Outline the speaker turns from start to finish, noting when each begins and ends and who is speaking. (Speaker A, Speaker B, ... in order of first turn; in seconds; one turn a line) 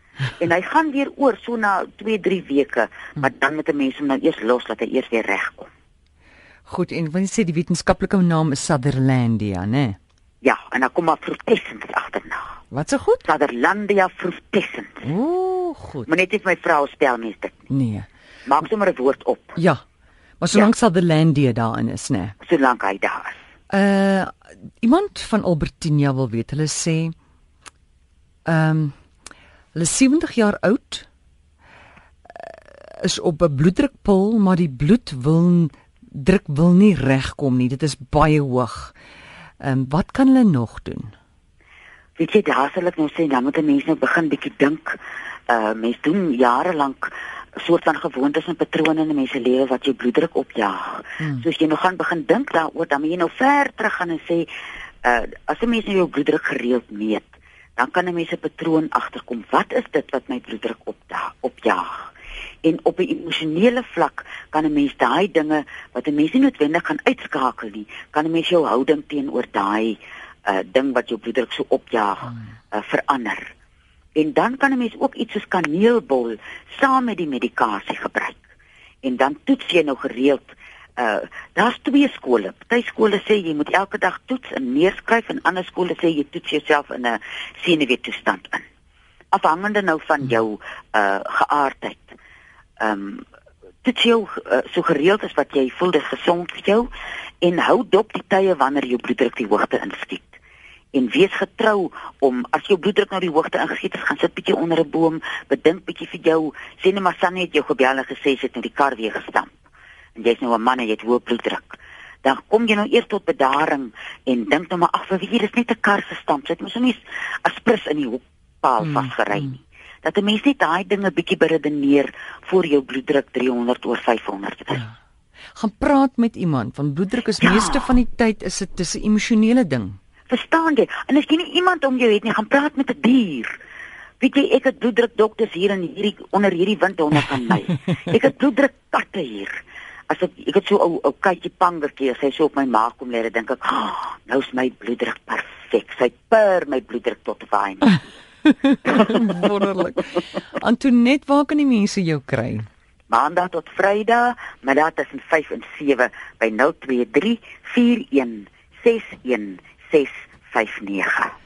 Speaker A: 0.4-5.7
Speaker B: 6.7-10.0
Speaker A: 10.4-12.4
Speaker B: 12.7-13.2
Speaker A: 13.2-15.0
Speaker B: 15.0-16.1
Speaker A: 16.1-17.7
Speaker B: 17.7-18.1
Speaker A: 18.4-19.6
Speaker B: 19.6-19.8
Speaker B: 20.4-22.3
Speaker A: 22.4-23.4
Speaker B: 23.7-27.1
Speaker B: 28.4-28.9
Speaker B: 29.7-31.1
Speaker B: 32.3-38.9
Speaker B: 39.6-41.1
Speaker A: 42.2-54.5
Speaker A: 55.0-62.1
Speaker A: 62.6-73.5
Speaker A: 74.2-78.4
Speaker A: 79.0-88.6
Speaker A: 89.3-92.2
Speaker A: 92.8-93.2
Speaker A: 93.8-96.9
Speaker A: 97.4-100.3
Speaker A: 100.9-109.5
Speaker A: 110.2-124.9
Speaker B: 118.8-119.4
Speaker B: 125.5-130.0
Speaker A: 127.4-127.9
Speaker A: 130.3-133.5
Speaker A: 134.2-139.6
Speaker A: 140.1-148.0
Speaker B: 148.7-152.7
Speaker A: 153.1-161.3